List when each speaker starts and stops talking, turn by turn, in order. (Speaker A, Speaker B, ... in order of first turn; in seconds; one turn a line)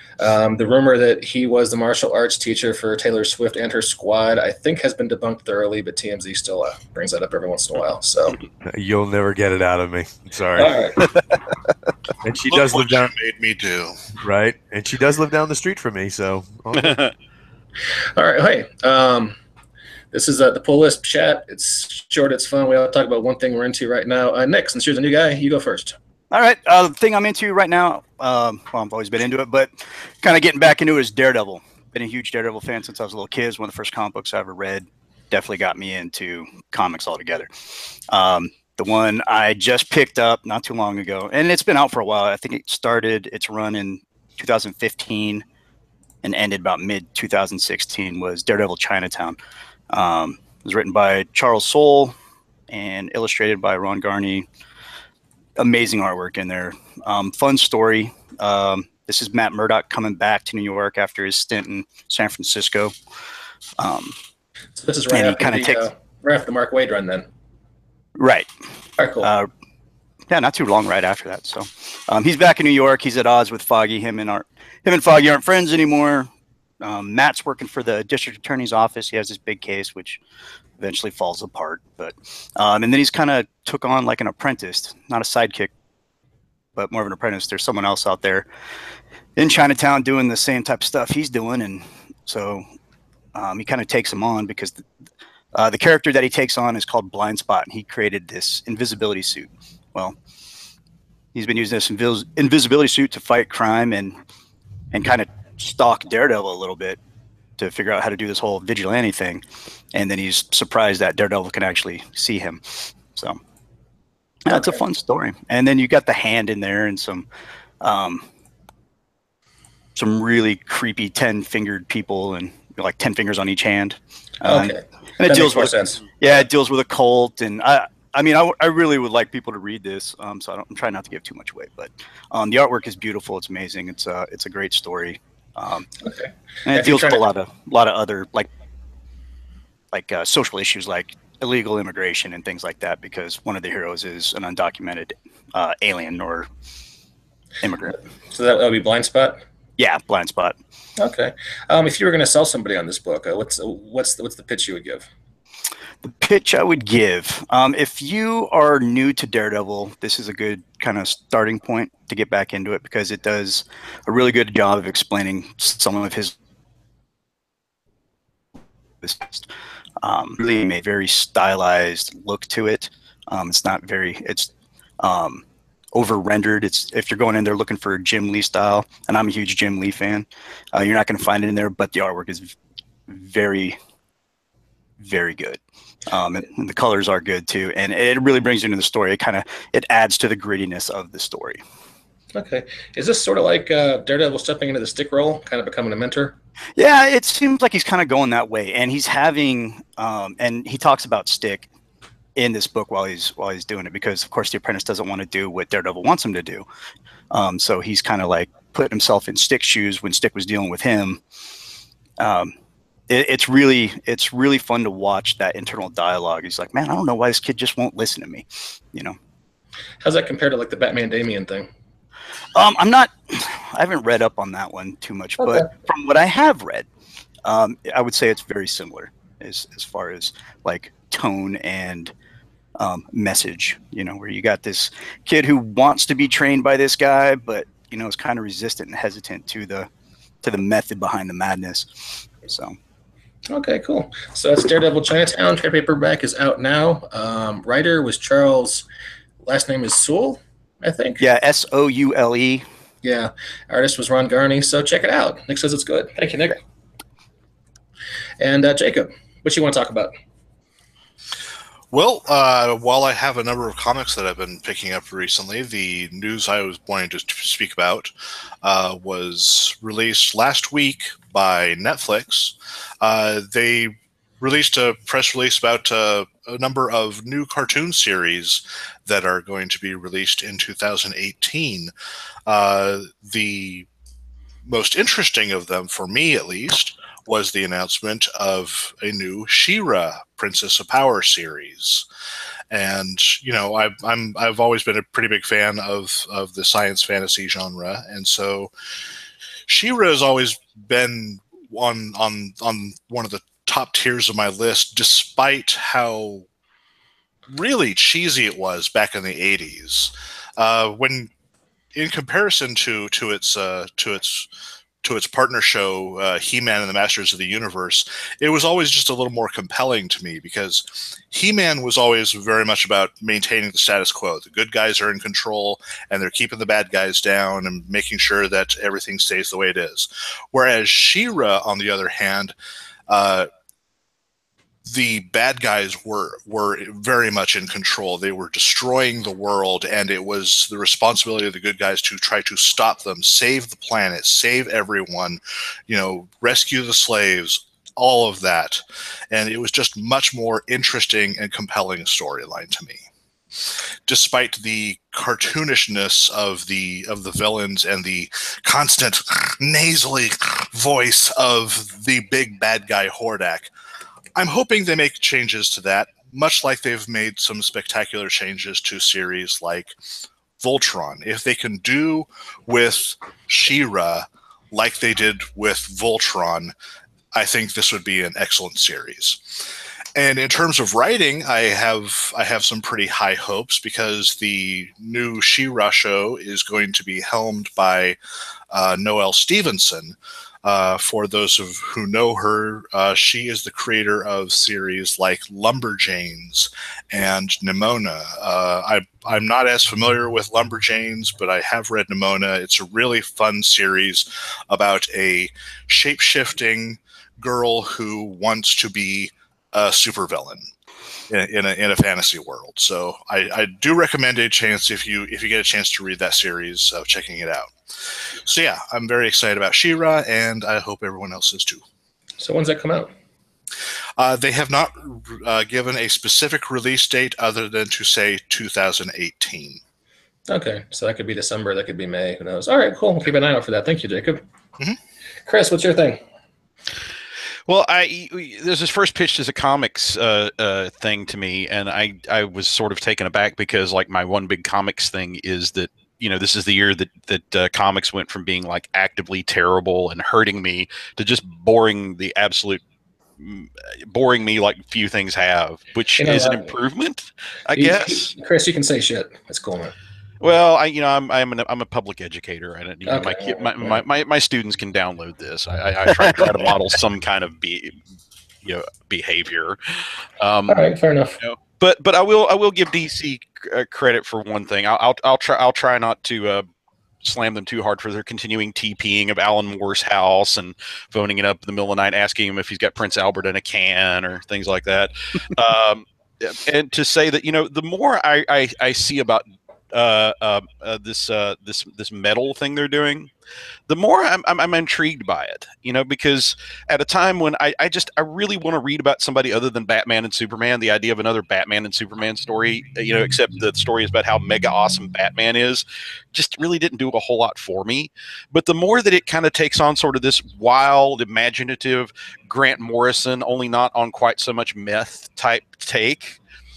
Speaker A: 0.2-8.4
Speaker B: 8.6-11.2
Speaker A: 10.6-11.0
Speaker B: 12.2-13.1
Speaker C: 12.5-14.0
Speaker B: 14.2-17.0
Speaker D: 16.8-17.1
Speaker A: 18.2-19.4
Speaker A: 20.1-25.9
Speaker E: 26.3-37.5
Speaker E: 38.1-45.5
Speaker E: 46.2-49.4
Speaker E: 49.9-52.1
Speaker E: 52.7-54.5
Speaker E: 55.6-62.9
Speaker E: 63.8-64.2
Speaker A: 64.8-67.3
Speaker E: 65.1-65.8
Speaker E: 68.2-68.5
Speaker A: 69.0-69.3
Speaker E: 69.2-69.5
Speaker E: 70.3-76.3
Speaker E: 76.8-80.2
Speaker E: 80.8-85.7
Speaker E: 86.8-88.5
Speaker E: 89.4-92.7
Speaker E: 93.3-94.8
Speaker E: 95.5-100.2
Speaker E: 101.3-104.2
Speaker E: 104.9-107.0
Speaker E: 107.6-113.4
Speaker E: 114.5-117.3
Speaker E: 117.8-118.2
Speaker E: 120.0-135.9
Speaker A: 124.4-126.0
Speaker A: 136.0-137.2
Speaker E: 136.7-138.5
Speaker E: 139.9-146.5
Speaker E: 147.6-148.0
Speaker A: 148.3-149.4
Speaker E: 149.8-150.6
Speaker A: 151.0-155.1
Speaker E: 156.0-166.3
Speaker E: 169.0-169.5
Speaker E: 170.0-182.6
Speaker E: 183.1-183.8
Speaker E: 185.0-191.6
Speaker A: 192.3-196.3
Speaker E: 196.8-201.7
Speaker E: 202.4-206.7
Speaker E: 207.3-211.2
Speaker E: 212.2-212.5
Speaker E: 213.1-219.2
Speaker A: 220.0-221.7
Speaker E: 222.6-226.9
Speaker E: 227.4-232.1
Speaker E: 232.8-239.9
Speaker E: 240.4-242.8
Speaker A: 243.5-248.9
Speaker A: 249.4-251.2
Speaker E: 251.2-252.7
Speaker A: 253.0-256.6
Speaker A: 258.4-260.1
Speaker C: 261.9-268.1
Speaker C: 268.6-281.9
Speaker C: 282.5-283.9
Speaker C: 284.7-292.1
Speaker C: 292.7-298.7
Speaker C: 299.7-306.4
Speaker C: 307.5-311.3
Speaker C: 311.9-314.5
Speaker C: 315.0-332.6
Speaker C: 333.1-333.5
Speaker C: 334.9-353.0
Speaker C: 354.1-363.7
Speaker C: 364.4-369.9
Speaker C: 370.6-376.7
Speaker C: 377.3-379.5
Speaker C: 380.2-388.2
Speaker C: 388.7-410.7
Speaker C: 411.3-421.8
Speaker A: 422.4-423.1
Speaker C: 424.2-429.8
Speaker A: 430.5-434.4
Speaker A: 435.5-436.2
Speaker D: 437.7-452.8
Speaker D: 453.4-458.3
Speaker A: 456.2-456.8
Speaker A: 457.8-459.9
Speaker D: 460.4-468.0
Speaker A: 463.1-464.0
Speaker D: 468.6-470.8
Speaker A: 470.7-471.4
Speaker D: 471.4-476.6
Speaker D: 477.2-493.3
Speaker D: 493.9-516.4